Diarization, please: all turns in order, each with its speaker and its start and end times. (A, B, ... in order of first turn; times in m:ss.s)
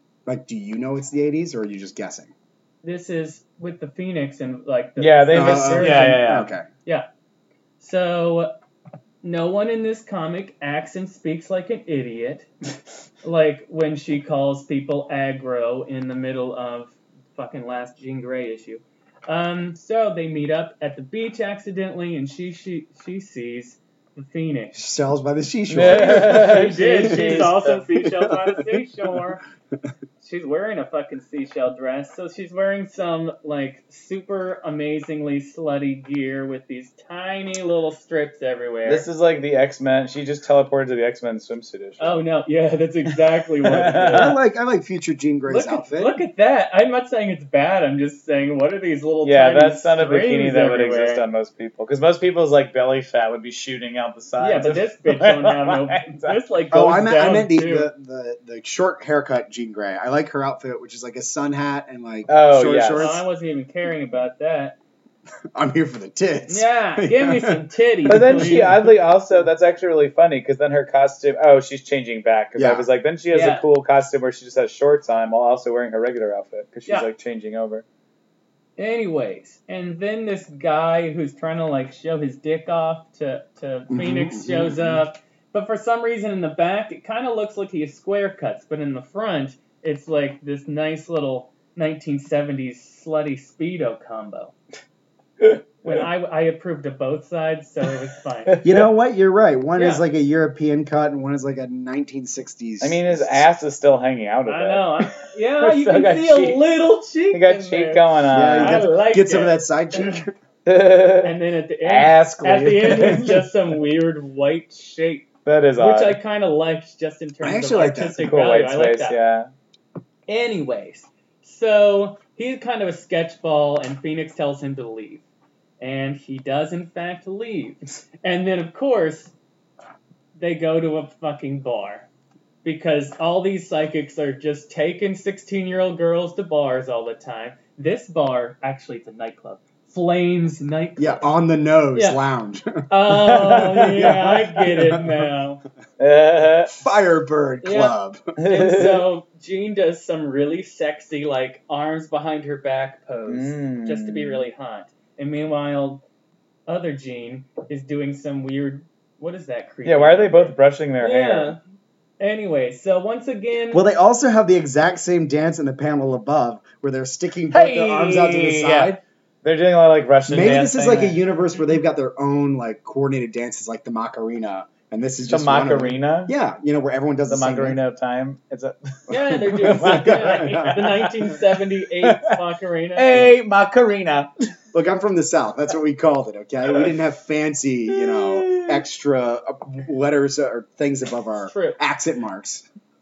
0:00.2-0:02.3 A
0:02.8-0:06.3 B
0:05.0-0:06.5 C
0:05.3-0:06.7 A
0:07.8-0:08.6 B
0:09.2-0:12.5 B
0:13.2-0:24.8 B
0:24.7-0:28.8 A
0:25.7-0:27.8 C
0:25.8-0:29.4 B
0:30.2-0:39.1 B
0:38.8-0:42.2 C
0:42.0-0:44.3 B
0:43.6-0:44.4 C
0:44.1-0:46.2 A
0:45.5-0:51.2 B
0:49.2-0:56.4 C
0:54.4-0:57.9 B
0:56.7-1:03.2 A
1:02.3-1:03.2 C
1:02.9-1:04.8 B
1:05.5-1:08.9 A
1:06.5-1:08.7 B
1:08.0-1:17.8 C
1:12.6-1:12.9 A
1:13.3-1:13.6 B
1:18.8-1:34.5 B
1:23.9-1:25.0 A
1:35.4-1:36.0 C
1:35.8-1:38.6 B
1:38.5-1:38.9 C
1:38.6-1:43.5 A
1:39.8-1:40.0 B
1:42.8-1:46.7 C
1:44.4-1:49.5 B
1:47.3-1:48.9 C
1:48.3-1:50.3 A
1:50.6-1:53.5 C
1:51.2-1:59.2 B
1:55.4-1:56.2 C
1:57.4-1:58.3 A
1:58.2-1:59.5 C
2:00.3-2:05.2 B
2:05.8-2:09.3 B
2:10.4-2:12.1 B
2:12.6-2:21.2 B
2:21.0-2:22.8 A
2:21.9-2:22.2 B
2:22.9-2:25.6 B
2:23.1-2:24.9 C
2:26.0-2:26.9 C
2:26.7-2:28.3 A
2:27.6-2:36.0 B
2:28.4-2:29.1 C
2:33.3-2:34.4 C
2:36.7-2:41.6 B
2:39.8-2:41.5 C
2:42.2-2:43.8 B
2:43.7-2:49.0 A
2:47.5-2:51.2 C
2:50.3-2:57.8 A
2:55.3-2:56.3 C
2:57.3-3:01.4 C
2:59.1-3:00.9 A
2:59.1-3:03.4 B
3:02.0-3:02.4 C
3:03.0-3:04.3 C
3:04.7-3:12.6 A
3:07.9-3:08.8 C
3:11.4-3:11.8 B